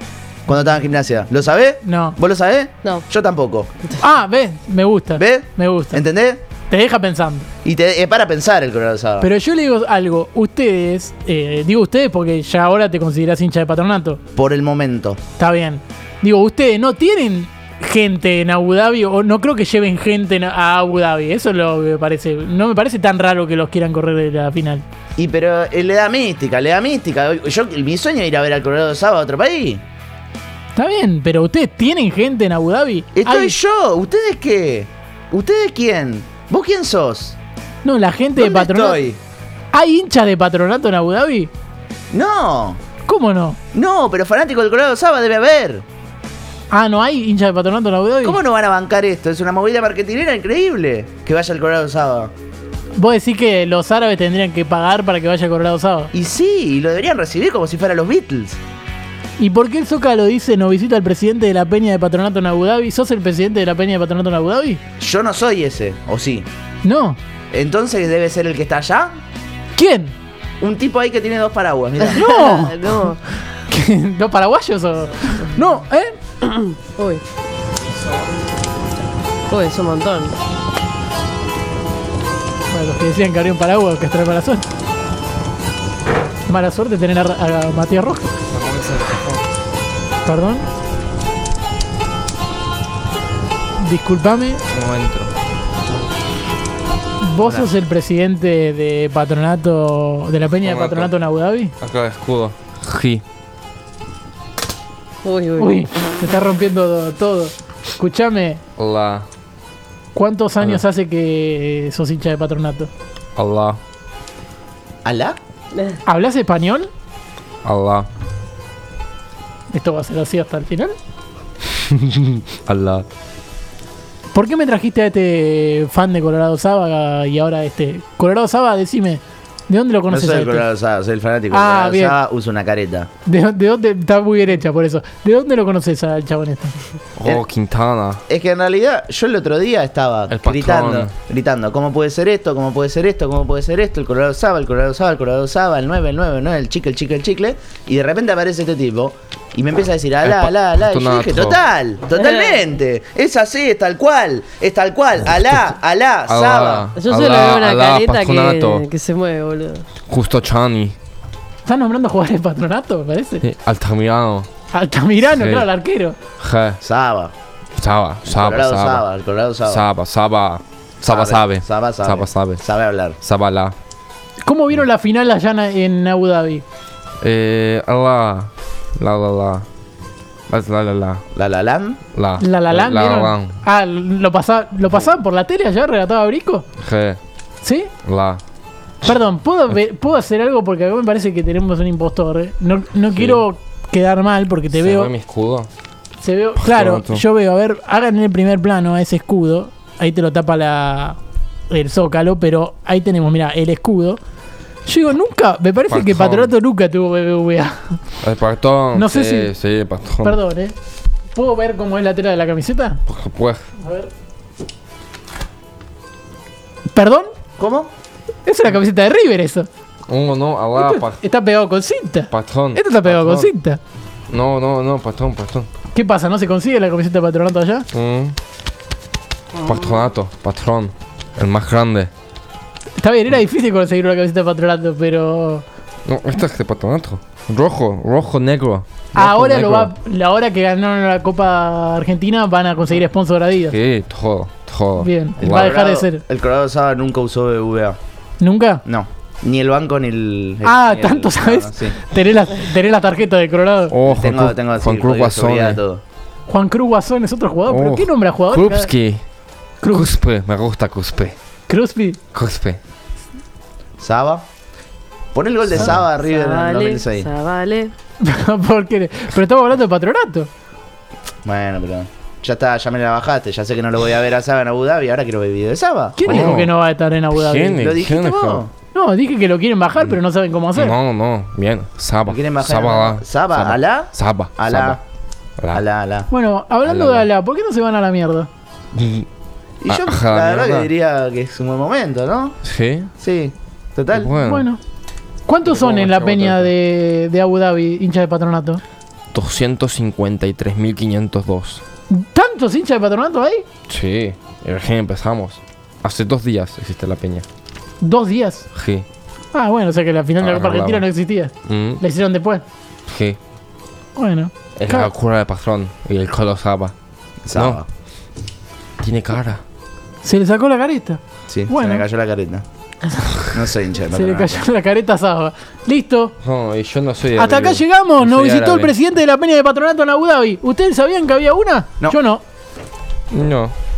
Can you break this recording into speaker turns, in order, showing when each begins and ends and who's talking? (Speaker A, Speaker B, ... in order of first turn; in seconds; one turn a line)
Speaker A: 0.5-3.7
Speaker B: 1.8-2.2
Speaker B: 4.0-6.0
Speaker A: 5.2-6.4
Speaker B: 6.7-7.5
Speaker A: 7.6-9.3
Speaker B: 9.2-14.2
Speaker A: 14.4-15.2
Speaker B: 15.4-24.9
Speaker A: 25.2-29.8
Speaker B: 30.8-33.5
Speaker A: 33.1-37.4
Speaker B: 37.8-39.0
Speaker A: 38.4-39.2
Speaker B: 39.7-41.5
Speaker A: 42.1-42.8
Speaker B: 43.0-43.6
Speaker A: 43.7-45.9
Speaker B: 46.7-48.4
Speaker A: 48.2-52.3
Speaker B: 53.0-56.1
Speaker A: 56.1-58.6
Speaker B: 59.4-64.8
Speaker A: 65.0-66.5
Speaker B: 66.8-67.2
Speaker A: 67.5-69.2
Speaker B: 69.8-70.1
Speaker A: 70.6-72.2
Speaker C: 72.0-73.2
Speaker B: 72.2-76.2
Speaker C: 76.4-77.2
Speaker C: 79.5-80.4
Speaker B: 82.7-84.7
Speaker B: 86.5-88.3
Speaker D: 88.5-89.4
Speaker B: 90.2-90.7
Speaker B: 93.8-94.6
Speaker D: 94.7-95.3
Speaker B: 97.2-101.7
Speaker D: 97.4-97.7
Speaker D: 100.6-101.1
Speaker D: 101.8-103.2
Speaker C: 105.2-105.8
Speaker B: 105.6-108.6
Speaker D: 108.8-109.3
Speaker B: 110.2-112.9
Speaker D: 113.4-113.8
Speaker A: 115.0-115.4
Speaker B: 116.1-116.9
Speaker D: 117.6-118.1
Speaker B: 119.7-121.0
Speaker D: 121.9-123.1
Speaker B: 124.3-130.7
Speaker A: 130.1-133.1
Speaker B: 131.5-132.2
Speaker B: 133.3-136.8
Speaker D: 137.2-138.2
Speaker A: 138.3-156.9
Speaker D: 140.3-141.1
Speaker D: 150.2-151.6
Speaker C: 152.2-152.6
Speaker D: 156.3-158.8
Speaker C: 157.0-159.9
Speaker D: 160.1-161.0
Speaker B: 161.7-163.4
Speaker D: 163.4-164.5
Speaker B: 164.7-166.2
Speaker D: 165.3-165.7
Speaker D: 166.4-166.8
Speaker A: 166.8-167.3
Speaker D: 167.8-169.1
Speaker A: 168.3-169.9
Speaker D: 169.7-172.6
Speaker A: 171.1-173.2
Speaker D: 173.2-173.8
Speaker B: 174.4-176.6
Speaker D: 177.2-179.7
Speaker D: 180.5-181.2
Speaker A: 181.3-182.0
Speaker D: 182.1-183.6
Speaker B: 182.4-186.7
Speaker D: 186.8-187.2
Speaker B: 187.6-187.9
Speaker D: 188.1-188.4
Speaker B: 189.0-195.1
Speaker D: 193.1-193.4
Speaker D: 194.7-195.7
Speaker B: 196.2-201.2
Speaker D: 196.6-197.2
Speaker B: 201.7-204.2
Speaker B: 204.9-208.0
Speaker D: 205.9-206.5
Speaker D: 208.2-210.4
Speaker B: 208.9-209.5
Speaker B: 210.2-210.7
Speaker B: 211.3-213.0
Speaker D: 213.1-213.6
Speaker B: 213.8-214.1
Speaker B: 216.9-217.3
Speaker A: 217.6-217.9
Speaker B: 218.5-219.7
Speaker D: 220.1-221.2
Speaker B: 220.8-223.8
Speaker D: 222.3-223.5
Speaker D: 224.3-225.7
Speaker B: 225.9-227.9
Speaker D: 227.9-228.4
Speaker D: 229.6-232.1
Speaker B: 233.0-235.6
Speaker D: 236.1-239.9
Speaker B: 239.1-243.8
Speaker D: 243.7-245.8
Speaker B: 245.0-246.2
Speaker A: 245.4-248.0
Speaker B: 248.4-248.8
Speaker A: 248.9-252.0
Speaker B: 250.6-254.0
Speaker D: 253.9-255.8
Speaker A: 254.1-256.0
Speaker B: 256.5-258.9
Speaker D: 257.7-259.2
Speaker B: 259.8-260.1
Speaker D: 259.9-261.4
Speaker B: 261.7-262.2
Speaker D: 262.3-262.8
Speaker A: 264.0-264.4
Speaker A: 265.3-267.3
Speaker C: 266.2-267.9
Speaker B: 268.2-270.5
Speaker A: 271.4-276.7
Speaker B: 276.2-277.8
Speaker D: 276.3-276.7
Speaker D: 277.3-278.6
Speaker A: 277.8-278.7
Speaker B: 278.9-281.0
Speaker D: 280.8-285.0
Speaker A: 282.3-285.0
Speaker A: 285.7-286.3
Speaker B: 286.3-288.5
Speaker D: 286.9-287.3
Speaker D: 288.9-289.3
Speaker A: 289.8-292.6
Speaker D: 289.9-290.9
Speaker D: 292.6-293.1
Speaker A: 293.2-294.3
Speaker D: 294.1-294.7
Speaker B: 294.4-294.8
Speaker B: 295.5-298.8
Speaker D: 295.6-296.7
Speaker D: 299.3-301.8
Speaker B: 302.1-303.6
Speaker D: 303.9-307.4
Speaker B: 308.0-308.7
Speaker D: 308.7-309.1
Speaker B: 309.5-312.6
Speaker D: 310.4-311.1
Speaker D: 311.6-312.0
Speaker D: 313.1-313.4
Speaker B: 314.2-315.1
Speaker D: 314.8-316.9
Speaker A: 317.4-317.9
Speaker D: 317.5-317.8
Speaker D: 319.0-319.6
Speaker B: 320.2-322.0
Speaker A: 321.5-322.6
Speaker A: 323.5-324.6
Speaker B: 324.1-326.3
Speaker D: 326.4-328.9
Speaker B: 327.4-332.4
Speaker D: 333.3-333.8